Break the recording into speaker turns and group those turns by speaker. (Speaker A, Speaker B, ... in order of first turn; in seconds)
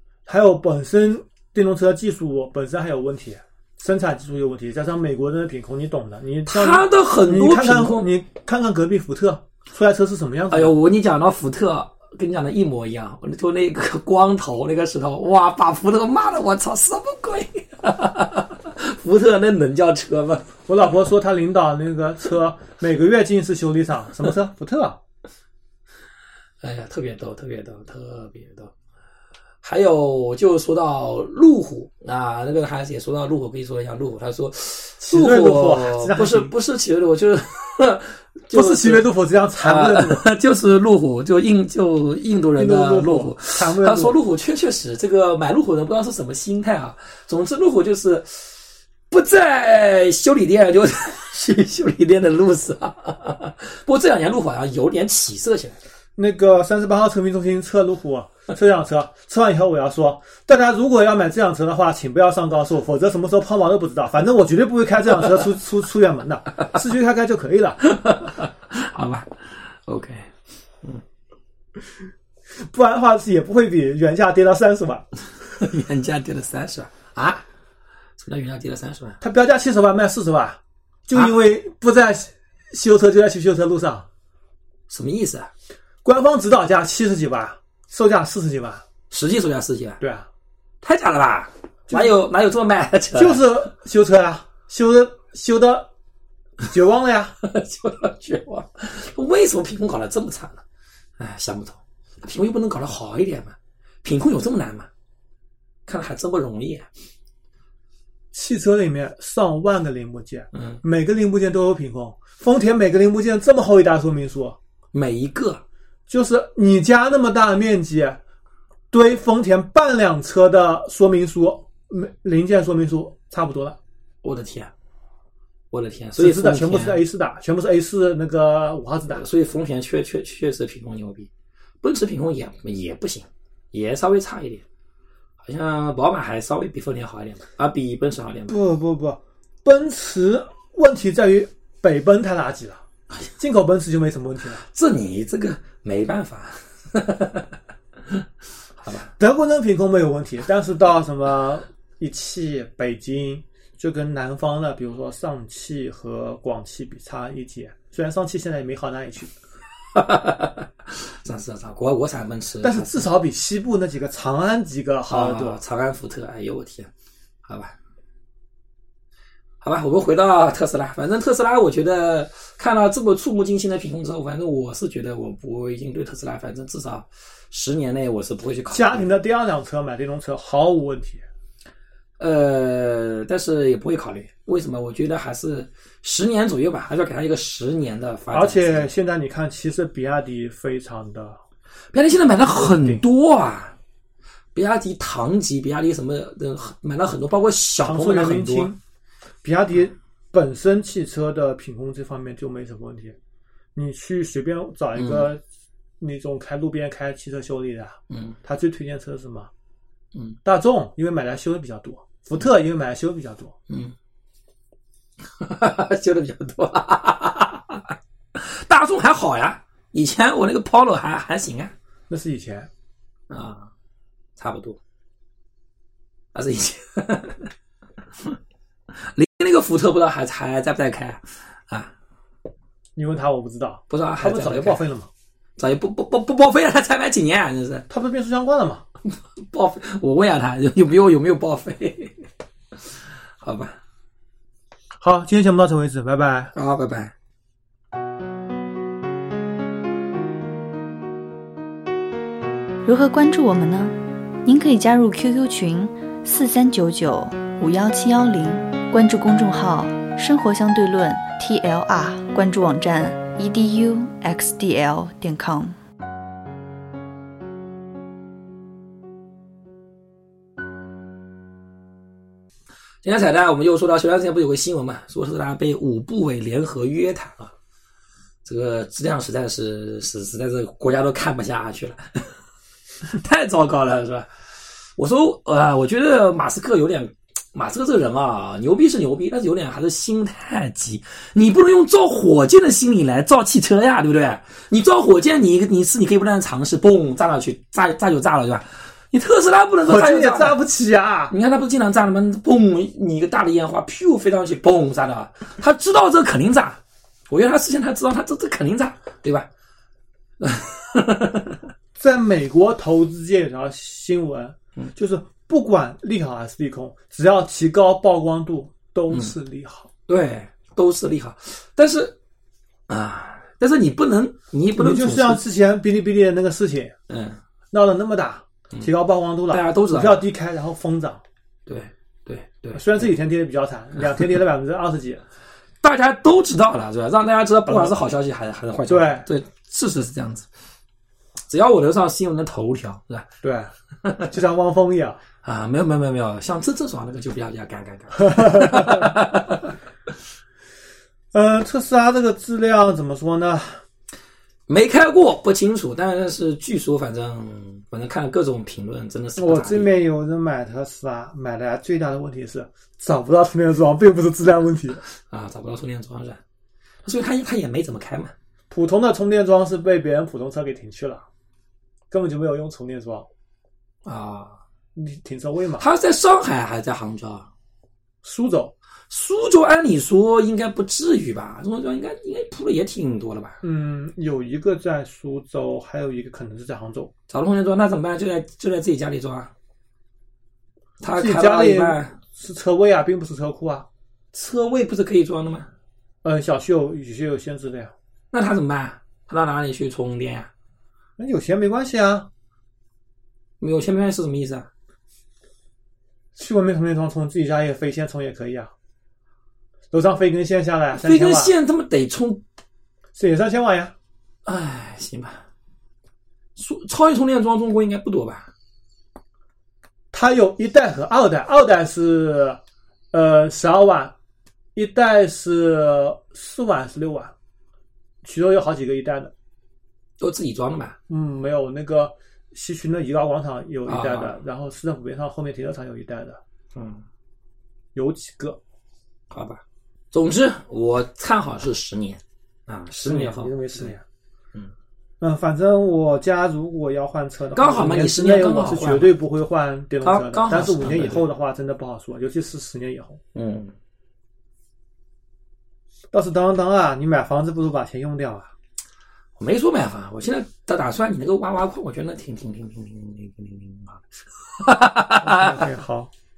Speaker A: 0.2-10.7, 20.7-25.0, 35.0-36.5, 38.5-40.2, 42.5-44.2, 56.2-67.8, 72.6-75.0, 79.2-84.1, 86.0-88.8, 90.0-90.3, 93.1-95.9, 96.6-97.3, 108.3-114.6, 116.1-118.2, 118.9-123.8, 126.2-129.2, 138.5-142.8, 143.4-144.6, 149.2-159.3, 162.6-165.6, 178.7-181.2, 188.3-191.4, 192.5-193.0, 197.8-198.8, 199.4-203.2, 203.7-205.4, 206.0-209.5, 210.4-213.5, 222.1-222.7, 232.9-235.1, 237.9-238.8, 245.0-246.5, 299.9-301.3, 311.9-319.9, 324.8-326.9, 327.7-331.2, 332.7-335.2, 337.7-338.0, 338.9-339.3, 343.4-343.7, 344.3-345.2, 348.4-349.1, 351.3-353.8, 359.4-365.0, 368.7-371.2, 372.1-373.3, 374.9-375.8, 378.2-378.7, 383.6-387.1, 391.2-393.9, 396.2-397.9, 401.2-402.3, 406.4-408.7, 409.9-411.5, 413.1-413.9, 420.1-422.6, 423.1-424.1, 424.8-427.3, 428.2-429.3, 431.1-436.4, 437.9-438.6, 443.0-444.0, 445.2-453.2, 456.1-458.5, 465.2-466.1
Speaker B: 6.5-8.1, 10.5-20.5, 26.6-28.7, 29.6-48.5, 49.1-55.8, 67.8-70.3, 75.5-77.4, 78.2-79.2, 84.9-85.5, 89.1-90.0, 90.8-93.5, 97.4-100.6, 101.2-104.9, 105.9-106.9, 110.5-110.8, 114.9-115.6, 124.2-124.7, 125.7-127.0, 129.1-131.3, 131.8-134.6, 135.4-138.6, 144.7-147.5, 148.8-149.1, 159.9-163.1, 165.1-166.9, 167.4-167.7, 169.6-179.1, 182.2-188.9, 191.9-193.7, 194.5-198.7, 204.9-205.3, 208.1-208.3, 213.7-213.9, 215.3-221.7, 223.3-223.7, 224.4-224.8, 226.3-227.5, 228.9-231.9, 233.9-234.8, 235.6-237.8, 239.1-242.2, 243.4-243.8, 246.5-247.1, 273.0-277.5, 278.4-282.3, 283.0-284.3, 285.0-300.6, 301.3-309.5, 310.4-311.6, 320.1-322.1, 322.9-325.4, 327.1-327.4, 329.5-330.2, 331.7-333.1, 335.8-340.4, 341.5-343.3, 344.0-344.3, 345.4-349.7, 354.7-359.9, 365.1-366.4, 367.0-368.3, 374.0-374.6, 375.8-377.5, 379.1-383.6, 387.3-389.5, 391.0-392.1, 394.3-395.7, 398.3-400.5, 403.6-404.7, 410.9-412.4, 414.4-415.4, 416.6-418.5, 430.2-431.0, 433.9-434.4, 436.7-437.0, 439.3-443.9, 447.5-449.1, 450.0-451.2, 453.3-453.7, 459.4-465.6
Speaker C: 252.8-253.9, 254.4-265.8